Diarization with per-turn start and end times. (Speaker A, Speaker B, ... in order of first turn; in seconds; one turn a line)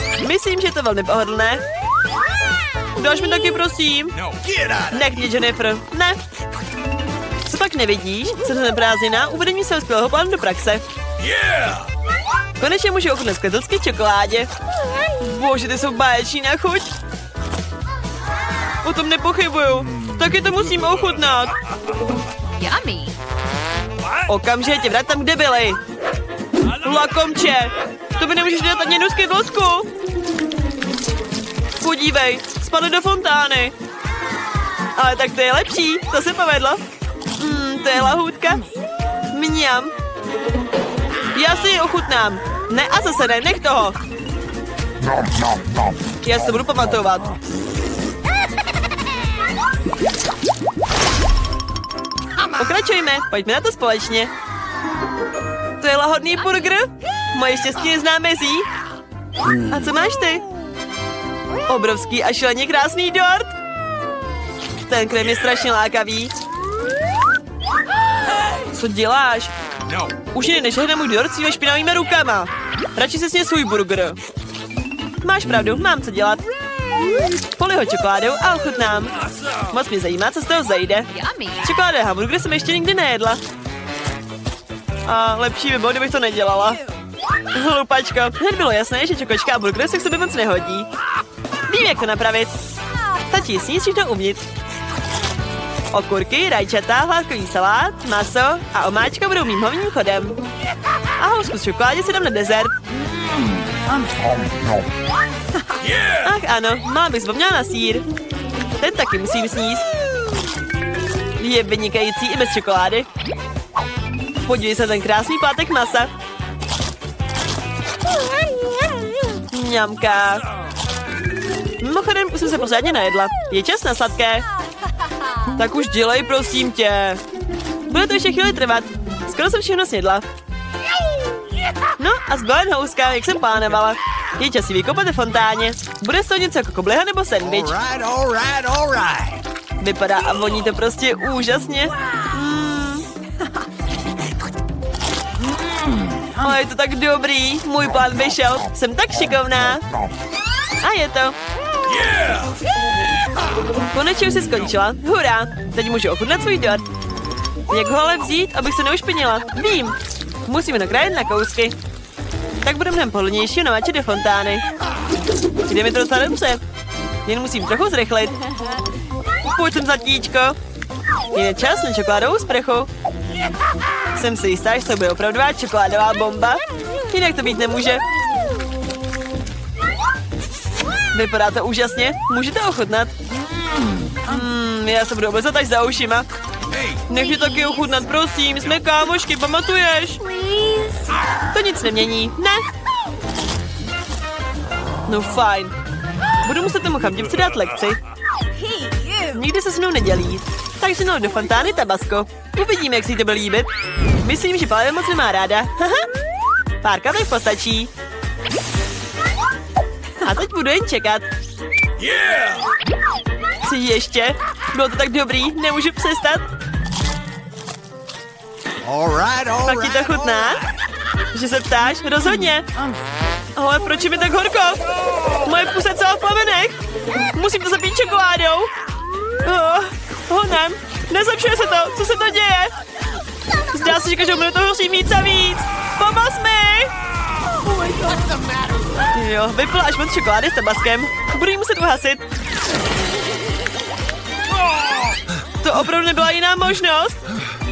Speaker A: 0.2-1.6
Speaker A: 3.0-4.2
Speaker B: 4.1-5.2
Speaker A: 4.9-6.2
Speaker A: 7.4-10.8
Speaker B: 11.2-11.9
Speaker A: 12.6-14.5
Speaker A: 15.2-16.9
Speaker A: 18.8-21.5
Speaker C: 22.6-23.1
Speaker B: 24.0-24.3
Speaker A: 24.3-25.8
Speaker B: 26.7-27.0
Speaker A: 26.8-29.9
Speaker A: 31.8-33.7
Speaker A: 35.0-36.8
Speaker A: 37.4-38.6
Speaker A: 39.3-39.9
Speaker A: 41.3-44.0
Speaker A: 46.2-47.3
Speaker A: 52.5-54.3
Speaker A: 55.8-58.7
Speaker A: 59.7-60.4
Speaker A: 61.7-63.5
Speaker A: 64.9-66.3
Speaker A: 68.7-69.5
Speaker B: 69.8-70.2
Speaker A: 70.3-74.2
Speaker A: 75.2-76.4
Speaker A: 77.5-81.1
Speaker B: 79.1-79.8
Speaker C: 81.1-81.6
Speaker A: 81.6-83.4
Speaker A: 85.0-86.8
Speaker A: 87.5-90.9
Speaker A: 91.7-92.5
Speaker A: 93.2-94.4
Speaker A: 95.9-100.4
Speaker A: 101.2-102.8
Speaker B: 105.7-106.3
Speaker A: 106.2-108.0
Speaker A: 108.8-109.9
Speaker A: 111.4-113.1
Speaker A: 114.5-116.1
Speaker A: 119.5-120.5
Speaker A: 121.8-124.5
Speaker A: 125.5-127.2
Speaker A: 127.9-130.2
Speaker A: 132.0-137.8
Speaker B: 137.4-139.4
Speaker A: 139.8-143.1
Speaker A: 146.3-149.8
Speaker A: 150.8-151.4
Speaker B: 151.8-152.6
Speaker A: 153.9-156.8
Speaker A: 157.7-161.7
Speaker A: 162.6-164.7
Speaker A: 165.7-166.6
Speaker A: 167.2-168.4
Speaker A: 169.5-170.6
Speaker A: 171.3-172.9
Speaker A: 174.1-178.0
Speaker A: 181.1-183.1
Speaker A: 184.2-186.3
Speaker B: 186.7-187.0
Speaker A: 187.1-190.4
Speaker C: 190.5-190.9
Speaker A: 191.5-192.7
Speaker A: 195.1-195.7
Speaker A: 196.4-198.0
Speaker C: 198.7-199.1
Speaker A: 199.2-203.7
Speaker A: 204.2-206.1
Speaker A: 206.8-207.9
Speaker A: 210.2-211.2
Speaker B: 212.0-212.7
Speaker A: 213.6-216.5
Speaker B: 218.8-220.8
Speaker A: 219.6-220.7
Speaker A: 221.3-222.7
Speaker A: 223.6-226.8
Speaker A: 227.3-228.7
Speaker A: 229.4-232.7
Speaker A: 233.7-236.9
Speaker B: 237.3-239.1
Speaker A: 239.1-242.2
Speaker B: 244.5-245.3
Speaker A: 245.6-247.2